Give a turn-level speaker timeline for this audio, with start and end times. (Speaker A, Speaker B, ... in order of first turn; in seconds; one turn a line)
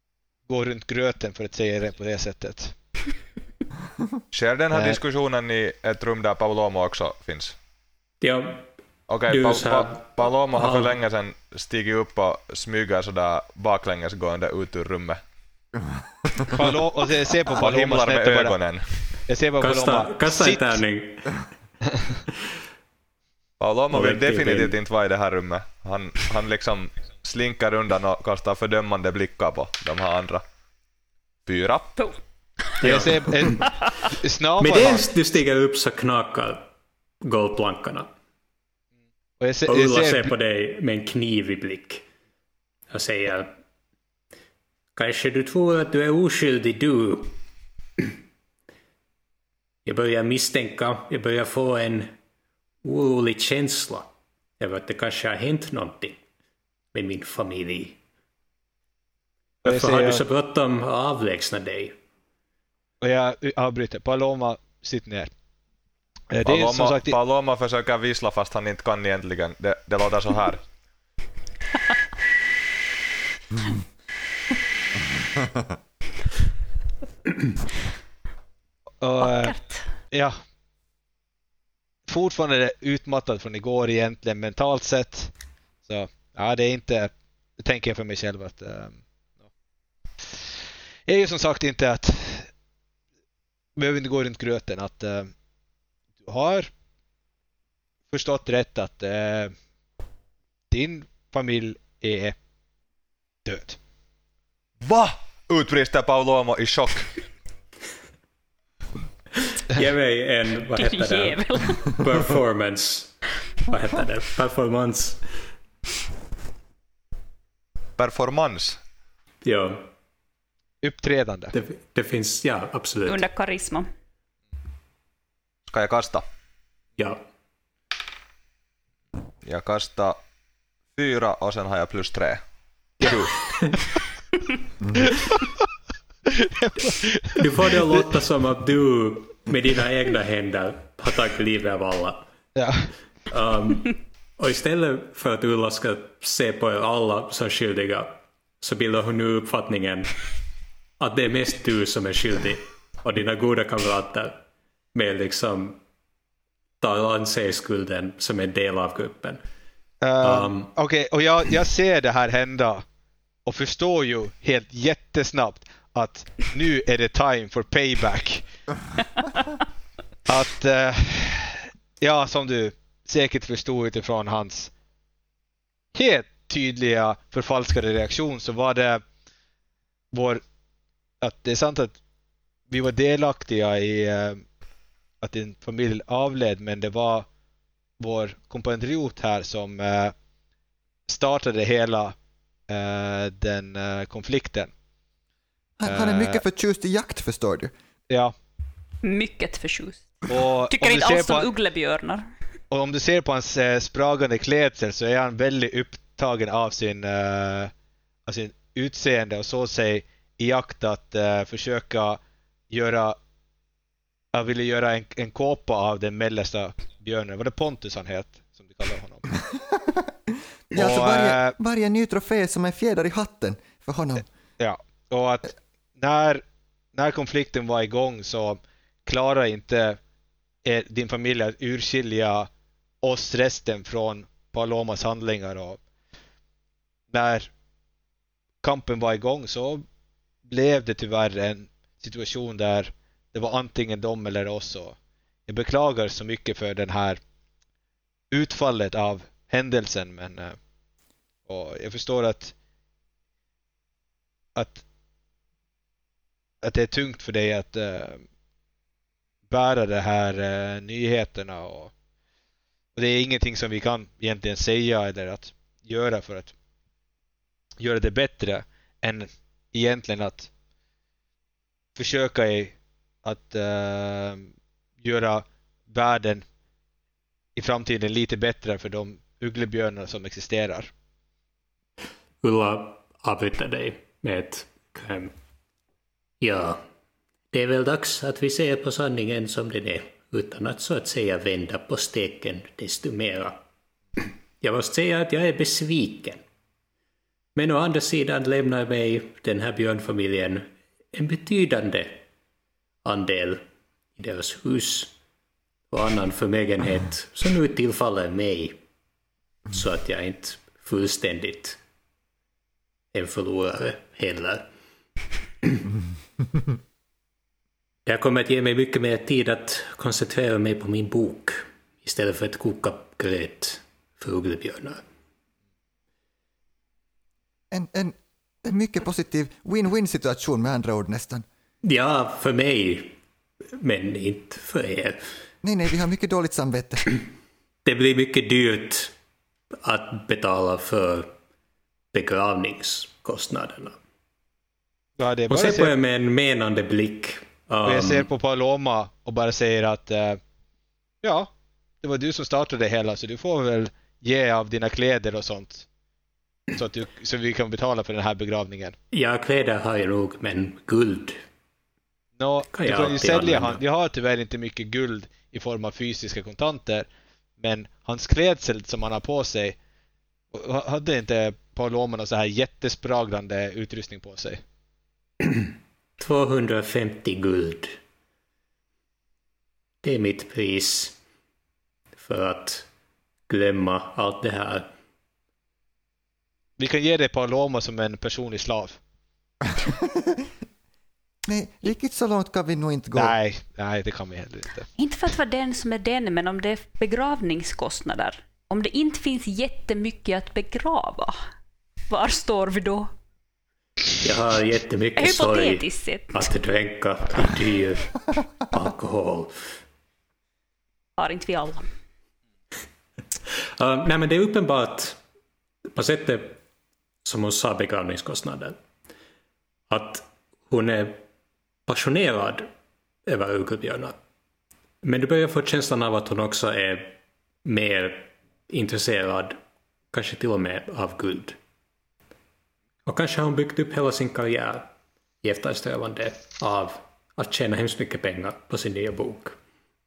Speaker A: 0.5-2.8
Speaker B: 4.3-7.6
Speaker A: 4.7-5.0
Speaker C: 8.2-8.7
Speaker B: 9.1-15.2
Speaker C: 9.3-11.0
Speaker A: 16.5-18.6
Speaker B: 17.5-19.1
Speaker A: 19.3-20.7
Speaker C: 19.6-21.4
Speaker B: 23.6-30.4
Speaker C: 23.9-24.8
Speaker B: 31.5-32.0
Speaker C: 32.8-33.7
Speaker A: 32.8-35.1
Speaker C: 34.6-36.7
Speaker C: 37.2-38.1
Speaker A: 39.4-40.3
Speaker C: 39.7-42.0
Speaker C: 42.9-43.5
Speaker C: 45.0-47.3
Speaker C: 49.9-52.1
Speaker C: 52.8-56.2
Speaker C: 56.9-58.0
Speaker A: 59.6-60.2
Speaker C: 59.6-62.0
Speaker A: 63.0-65.3
Speaker A: 66.3-67.2
Speaker B: 66.4-70.6
Speaker A: 79.0-79.6
Speaker D: 79.2-79.8
Speaker A: 80.1-80.4
Speaker A: 82.1-85.3
Speaker A: 85.8-89.0
Speaker A: 91.1-92.5
Speaker A: 93.8-95.3
Speaker A: 96.2-96.7
Speaker A: 98.1-99.5
Speaker A: 100.7-102.3
Speaker A: 103.5-103.8
Speaker B: 104.8-107.1
Speaker C: 109.5-115.3
Speaker D: 110.8-111.9
Speaker B: 118.0-118.8
Speaker C: 119.4-119.9
Speaker A: 120.8-121.5
Speaker C: 121.5-123.2
Speaker D: 123.1-123.9
Speaker B: 125.7-126.2
Speaker C: 127.0-127.2
Speaker B: 129.4-130.2
Speaker B: 130.9-132.4
Speaker B: 133.0-133.3
Speaker C: 133.0-133.9
Speaker A: 136.4-137.4
Speaker C: 137.3-142.3
Speaker A: 142.6-142.9
Speaker C: 143.3-150.1
Speaker C: 151.0-155.8
Speaker C: 156.8-159.4
Speaker A: 160.0-162.8
Speaker C: 160.2-160.7
Speaker A: 163.5-168.4
Speaker A: 170.3-174.7
Speaker A: 175.9-179.0
Speaker A: 180.1-180.4
Speaker A: 181.2-182.0
Speaker A: 182.7-184.4
Speaker A: 185.2-187.3
Speaker A: 188.0-190.1
Speaker A: 191.1-192.2
Speaker A: 192.7-194.7
Speaker E: 195.8-197.7
Speaker A: 195.9-196.4
Speaker D: 199.0-200.1
Speaker A: 200.3-201.5
Speaker D: 200.7-202.3
Speaker A: 202.7-207.7
Speaker A: 208.3-212.2
Speaker A: 212.7-213.2
Speaker A: 214.3-219.3
Speaker E: 219.5-224.2
Speaker A: 220.7-221.6
Speaker A: 224.6-226.4
Speaker A: 226.9-230.0
Speaker A: 230.6-232.5
Speaker A: 233.0-235.8
Speaker A: 237.1-237.5
Speaker A: 238.6-239.8
Speaker A: 240.5-245.0
Speaker A: 245.5-247.2
Speaker A: 248.3-250.6
Speaker A: 251.5-252.5
Speaker A: 254.6-254.8
Speaker A: 256.6-258.2
Speaker A: 259.5-261.9
Speaker A: 263.0-266.5
Speaker A: 267.8-270.5
Speaker A: 272.0-274.5
Speaker A: 275.0-276.4
Speaker A: 277.6-280.9
Speaker C: 282.4-285.3
Speaker C: 286.4-286.8
Speaker C: 287.5-293.6
Speaker C: 294.2-296.4
Speaker C: 297.6-302.2
Speaker C: 303.0-303.6
Speaker C: 304.2-305.2
Speaker C: 305.9-308.8
Speaker C: 309.7-311.8
Speaker C: 313.1-314.7
Speaker C: 318.1-325.0
Speaker E: 327.7-331.5
Speaker C: 331.8-333.2
Speaker C: 333.7-335.2
Speaker E: 335.6-337.1
Speaker C: 337.9-339.1
Speaker C: 339.8-341.3
Speaker C: 342.1-344.0
Speaker A: 345.2-345.9
Speaker C: 345.5-348.3
Speaker A: 347.9-350.4
Speaker A: 351.2-351.5
Speaker A: 352.0-355.9
Speaker A: 356.8-359.0
Speaker C: 359.1-361.4
Speaker A: 362.4-369.8
Speaker C: 362.7-363.8
Speaker A: 370.5-374.6
Speaker C: 375.4-378.0
Speaker C: 380.0-381.2
Speaker C: 382.2-382.9
Speaker C: 383.5-384.9
Speaker A: 386.8-389.0
Speaker E: 389.8-390.5
Speaker E: 391.5-393.4
Speaker A: 393.1-394.9
Speaker D: 395.0-401.4
Speaker D: 402.1-403.1
Speaker C: 404.2-408.1
Speaker D: 405.2-406.5
Speaker C: 408.6-409.5
Speaker D: 411.2-411.9
Speaker C: 413.8-415.2
Speaker C: 415.9-416.6
Speaker C: 417.2-418.8
Speaker C: 419.9-421.2
Speaker C: 421.9-422.7
Speaker C: 423.3-424.2
Speaker C: 425.0-429.6
Speaker C: 430.1-431.6
Speaker C: 433.1-434.9
Speaker C: 435.4-439.6